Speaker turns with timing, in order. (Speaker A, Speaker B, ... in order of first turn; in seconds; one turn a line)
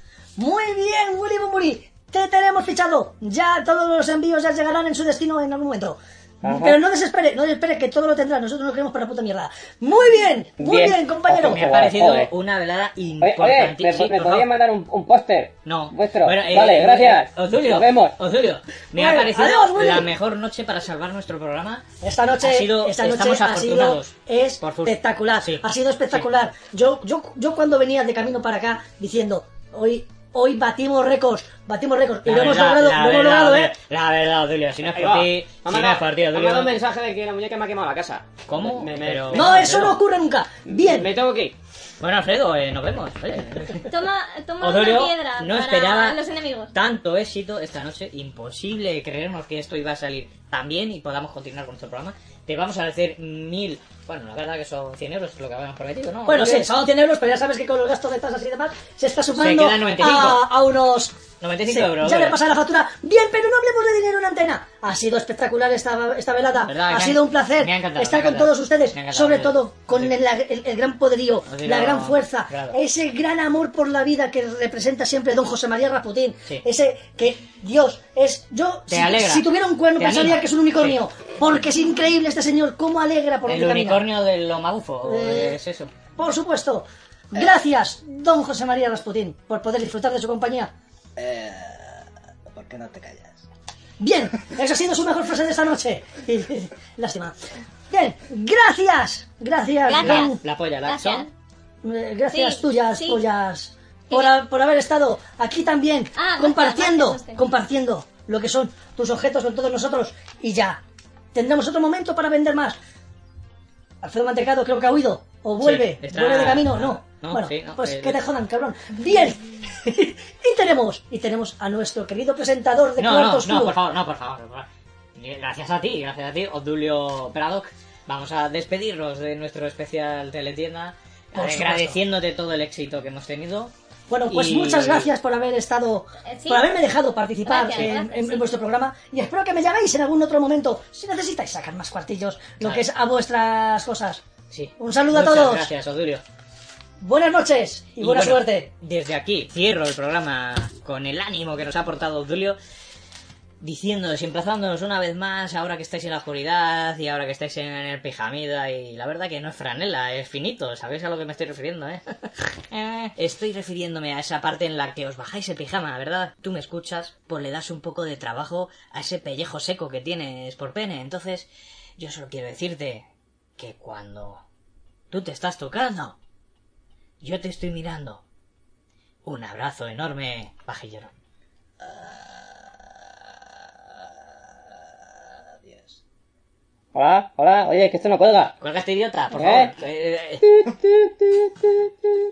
Speaker A: 0.4-11.6
Speaker B: 6.4-6.8
Speaker B: 10.6-12.3
Speaker C: 11.4-14.5
Speaker B: 13.2-18.2
Speaker C: 15.7-21.8
Speaker A: 18.9-20.1
Speaker A: 22.0-33.7
Speaker C: 22.4-26.3
Speaker C: 32.2-36.8
Speaker B: 34.9-40.0
Speaker C: 38.5-40.0
Speaker A: 39.3-41.1
Speaker B: 40.6-41.5
Speaker C: 42.0-43.9
Speaker D: 43.9-46.7
Speaker C: 44.6-46.2
Speaker C: 46.7-56.7
Speaker A: 56.3-84.0
Speaker C: 59.3-60.5
Speaker C: 61.4-62.4
Speaker C: 66.6-70.1
Speaker C: 71.5-72.8
Speaker C: 78.9-81.0
Speaker C: 83.5-85.9
Speaker A: 85.0-85.6
Speaker A: 86.2-90.7
Speaker E: 91.2-93.4
Speaker A: 94.0-97.3
Speaker A: 97.9-100.4
Speaker D: 99.8-101.3
Speaker C: 99.9-101.3
Speaker A: 101.8-110.8
Speaker D: 102.3-103.2
Speaker D: 104.1-104.4
Speaker D: 106.2-107.4
Speaker A: 111.3-112.8
Speaker A: 114.0-123.8
Speaker C: 115.6-118.2
Speaker C: 123.0-133.7
Speaker A: 131.3-132.0
Speaker A: 134.1-144.2
Speaker C: 134.3-135.1
Speaker D: 136.3-136.8
Speaker D: 137.4-138.5
Speaker C: 144.5-146.2
Speaker A: 144.8-145.7
Speaker A: 147.0-148.7
Speaker C: 148.0-152.6
Speaker C: 153.6-173.1
Speaker C: 173.6-174.4
Speaker C: 175.1-176.2
Speaker C: 177.2-178.2
Speaker C: 179.2-181.1
Speaker E: 181.8-182.7
Speaker E: 185.6-186.0
Speaker B: 186.9-188.5
Speaker C: 188.6-190.4
Speaker B: 189.3-189.7
Speaker B: 190.4-191.5